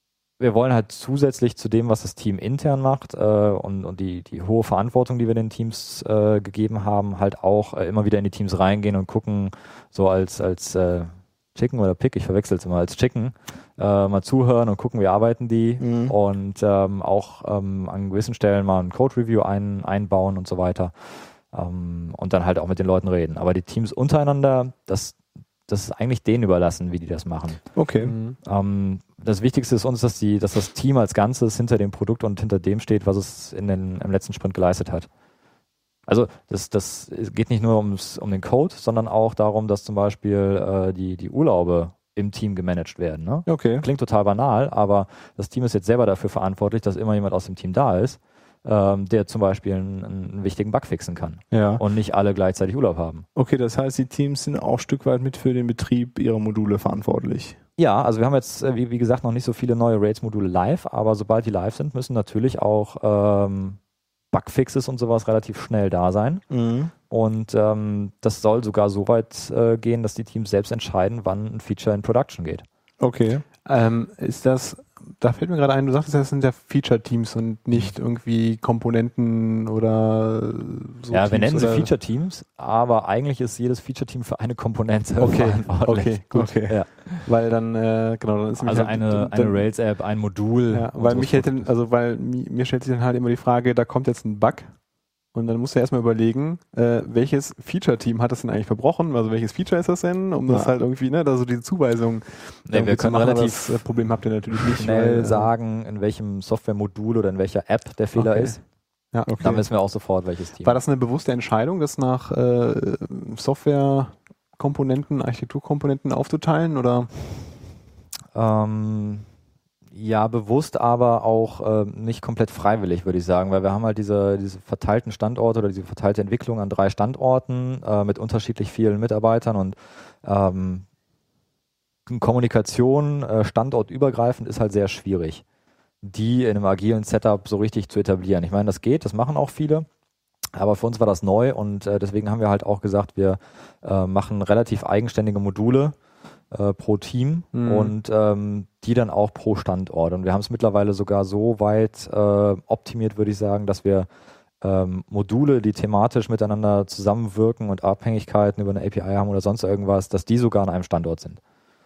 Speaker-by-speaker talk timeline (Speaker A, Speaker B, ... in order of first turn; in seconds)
Speaker A: 0.4-20.9, 21.5-25.2, 25.7-27.6, 28.4-35.1, 36.1-53.2, 57.8-63.8, 64.3-66.4, 67.1-72.6, 81.1-87.2, 88.6-91.6, 102.7-103.7, 104.6-108.6, 109.4-110.8, 118.3-119.2, 119.9-130.8, 132.1-135.4, 136.0-139.8, 140.5-145.9, 146.5-154.1, 154.6-161.4
Speaker B: 15.8-16.1, 27.7-28.1, 43.5-43.8, 51.5-51.8, 53.4-57.6, 66.5-66.9, 73.0-73.4, 86.3-86.8, 109.3-109.6
Speaker C: 28.0-28.4, 73.6-81.9, 85.2-89.6, 90.7-94.7, 95.3-105.5, 108.2-108.5, 110.6-117.1, 147.5-147.9